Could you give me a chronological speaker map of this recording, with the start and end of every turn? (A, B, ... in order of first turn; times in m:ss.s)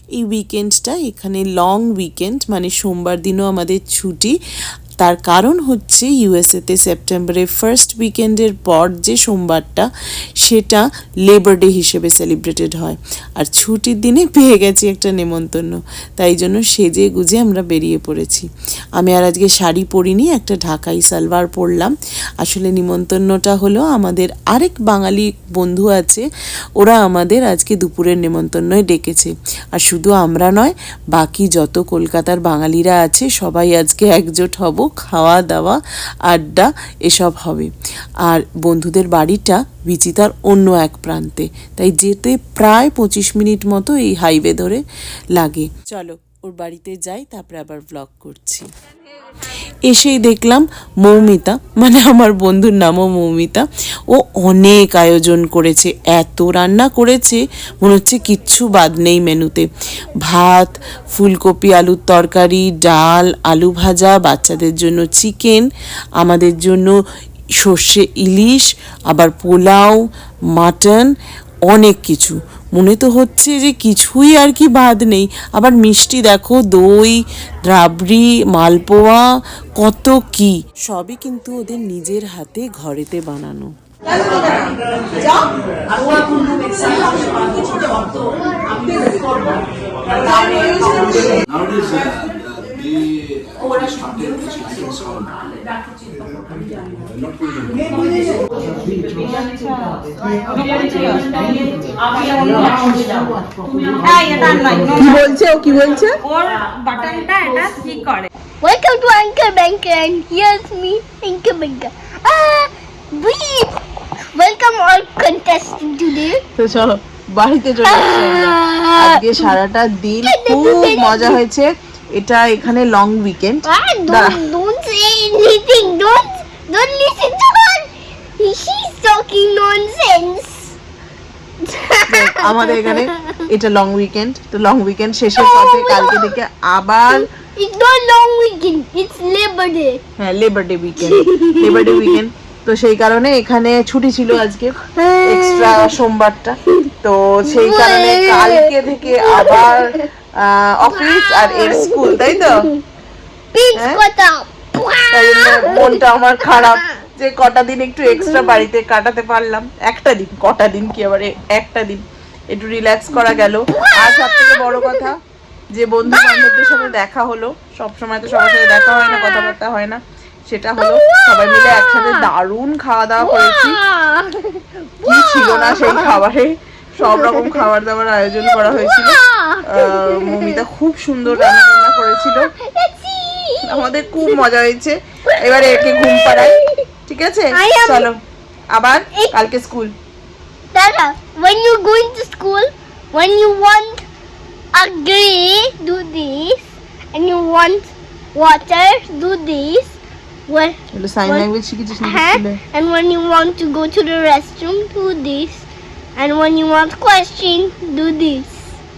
0:00.1-0:04.4 A
0:05.0-0:09.9 A
0:10.4-0:26.2 A
0:26.8-0:37.7 A
0:38.2-0:44.8 A
0:45.4-0:48.7 A
0:49.9-0:59.7 A
1:00.2-1:05.7 A
1:06.2-1:07.0 A
1:07.6-1:10.0 A
1:10.6-1:11.1 A
1:11.7-1:19.2 A
1:19.8-1:23.7 A
1:26.2-1:27.6 B
1:30.2-1:31.4 C
1:32.0-1:32.8 B
1:33.6-1:35.3 B
1:39.1-1:40.0 C
1:40.5-1:41.5 B
1:42.1-1:42.9 B
1:42.6-1:43.1 C
1:43.9-1:45.2 B
1:44.9-1:46.2 C
1:46.2-1:48.3 B
1:48.6-1:53.8 D
1:54.4-1:56.4 D
1:56.6-2:04.4 C
1:57.8-1:59.6 D
2:00.2-2:01.4 D
2:03.6-2:10.7 D
2:11.6-2:13.4 D
2:12.1-2:17.2 C
2:15.4-2:16.3 D
2:17.1-2:20.0 D
2:20.2-2:32.7 C
2:21.0-2:22.2 D
2:25.0-2:26.0 D
2:27.4-2:30.1 D
2:30.8-2:32.8 D
2:33.5-2:36.9 D
2:33.7-2:34.0 C
2:35.1-2:45.2 C
2:38.1-2:38.6 D
2:43.1-2:45.1 D
2:45.7-2:53.8 C
2:46.1-2:46.9 D
2:48.3-2:49.6 D
2:50.8-2:52.3 D
2:53.2-2:56.2 D
2:55.0-3:02.5 C
2:57.0-2:57.6 D
2:58.4-3:00.6 D
3:01.3-3:04.4 D
3:03.6-3:08.2 C
3:05.3-3:06.8 D
3:07.5-3:08.1 D
3:08.7-3:09.9 C
3:10.7-3:14.0 D
3:14.7-3:20.0 D
3:20.5-3:21.5 D
3:20.9-3:22.6 C
3:22.0-3:28.6 D